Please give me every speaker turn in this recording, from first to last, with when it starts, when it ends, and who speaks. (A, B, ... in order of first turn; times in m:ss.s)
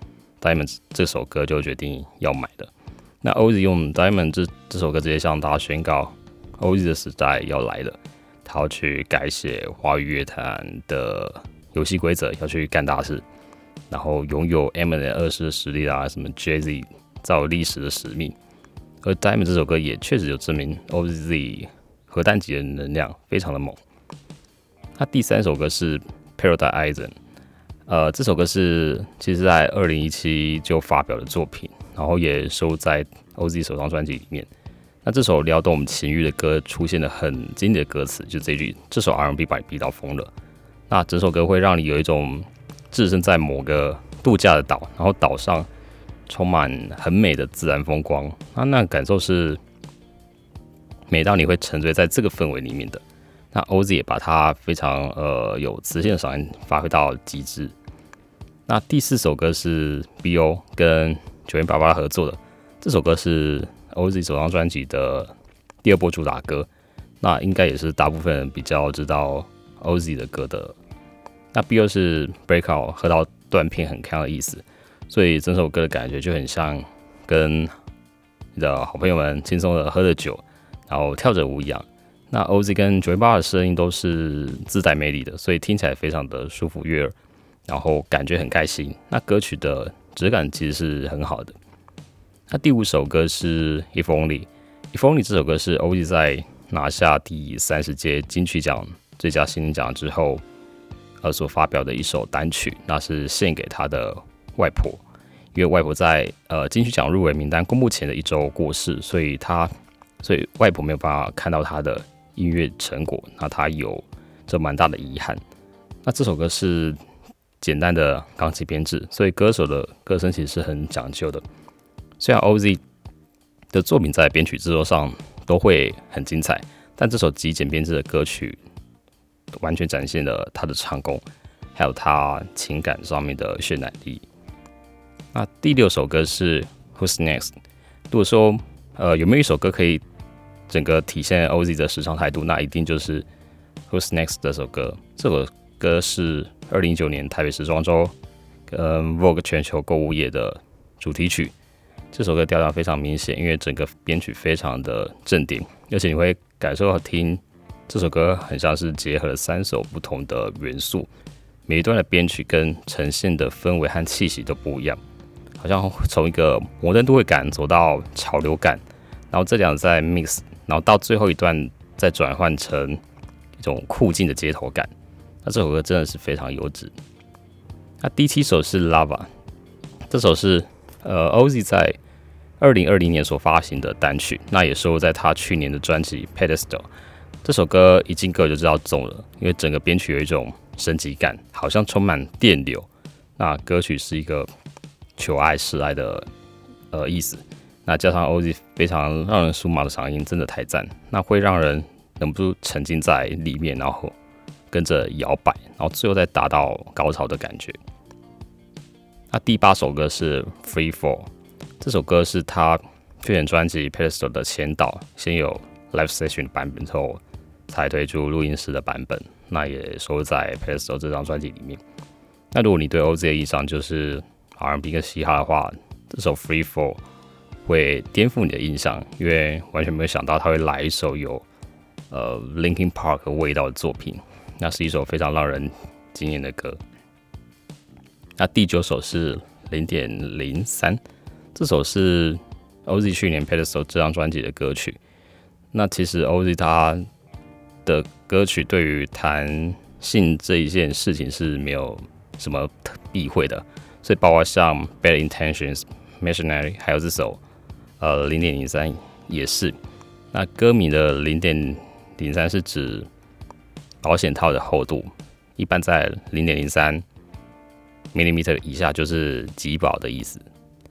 0:00.4-0:02.7 A
0:03.2-0:13.2 A
0:13.9-0:18.4 A
0:19.0-0:23.8 A
0:25.0-0:27.2 A
0:27.9-0:34.5 A
0:35.0-0:40.3 A
0:40.9-0:45.7 A
0:46.3-0:49.6 A
0:51.1-0:57.8 A
0:58.7-1:06.7 A
1:07.2-1:10.8 A
1:11.5-1:17.7 A
1:18.6-1:27.2 A
1:27.7-1:31.6 A
1:32.5-1:40.4 A
1:41.2-1:45.0 A
1:45.5-1:55.4 A
1:56.0-1:57.0 A
1:57.6-2:01.4 A
2:02.2-2:02.8 A
2:03.7-2:08.6 A
2:09.6-2:11.2 A
2:11.8-2:14.3 A
2:15.3-2:17.5 A
2:18.1-2:20.0 A
2:20.7-2:23.3 A
2:23.9-2:28.1 A
2:28.7-2:31.5 A
2:32.1-2:41.1 A
2:41.7-2:45.0 A
2:45.6-2:53.0 A
2:53.6-2:54.9 A
2:55.4-2:57.0 A
2:58.0-2:59.3 A
3:00.1-3:02.0 A
3:02.6-3:06.9 A
3:07.4-3:14.5 A
3:15.2-3:16.3 A
3:16.9-3:24.2 A
3:24.7-3:27.8 A
3:29.3-3:41.8 A
3:42.5-3:47.0 A
3:47.7-3:51.4 A
3:52.1-3:56.8 A
3:58.4-4:01.0 A
4:01.6-4:05.0 A
4:05.7-4:07.0 A
4:07.8-4:17.4 A
4:18.0-4:19.8 A
4:20.3-4:23.1 A
4:24.0-4:27.0 A
4:28.1-4:30.4 A